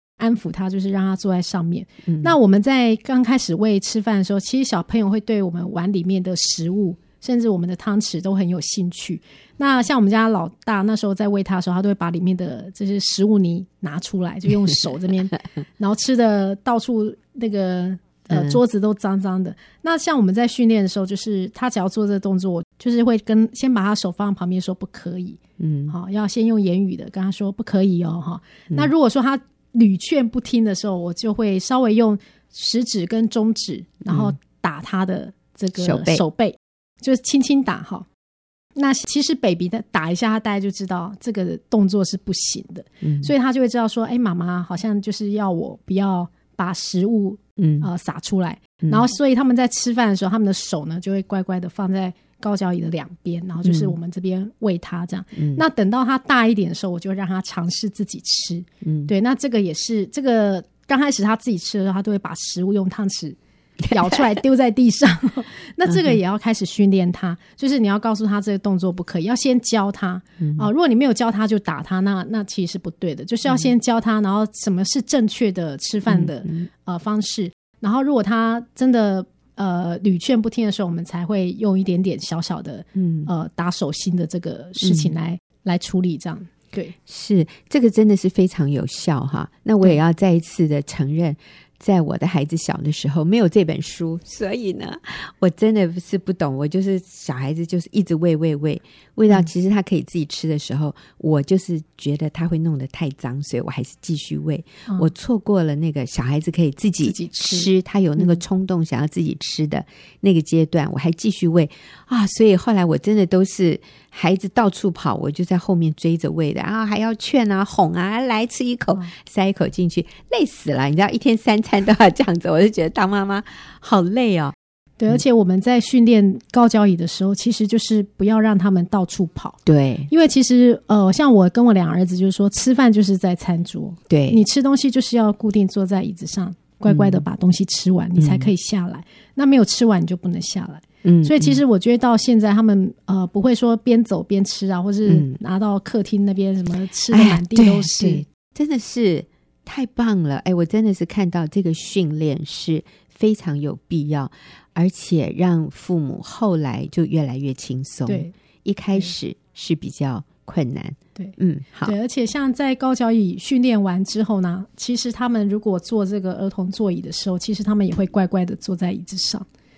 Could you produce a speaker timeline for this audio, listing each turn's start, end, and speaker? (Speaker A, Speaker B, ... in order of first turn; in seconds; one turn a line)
Speaker A: 0.2-38.0
Speaker B: 2.0-2.3
Speaker B: 18.3-18.6
Speaker B: 25.6-25.9
Speaker B: 34.1-34.3
Speaker B: 35.8-36.2
Speaker A: 38.8-63.4
Speaker B: 43.0-43.3
Speaker B: 47.6-47.9
Speaker B: 53.6-53.9
Speaker B: 55.4-55.6
Speaker B: 58.8-59.1
Speaker A: 63.9-86.9
Speaker B: 65.8-66.2
Speaker B: 70.4-70.7
Speaker B: 76.1-76.7
Speaker B: 83.0-83.3
Speaker B: 84.8-85.1
Speaker B: 87.0-124.5
Speaker A: 107.0-108.4
Speaker A: 125.0-129.6
Speaker B: 129.7-130.1
Speaker A: 130.1-148.2
Speaker B: 134.1-134.4
Speaker B: 136.9-137.2
Speaker B: 138.2-138.5
Speaker B: 141.0-141.6
Speaker B: 145.1-145.4
Speaker B: 147.1-161.9
Speaker A: 158.1-158.3
Speaker A: 161.2-169.4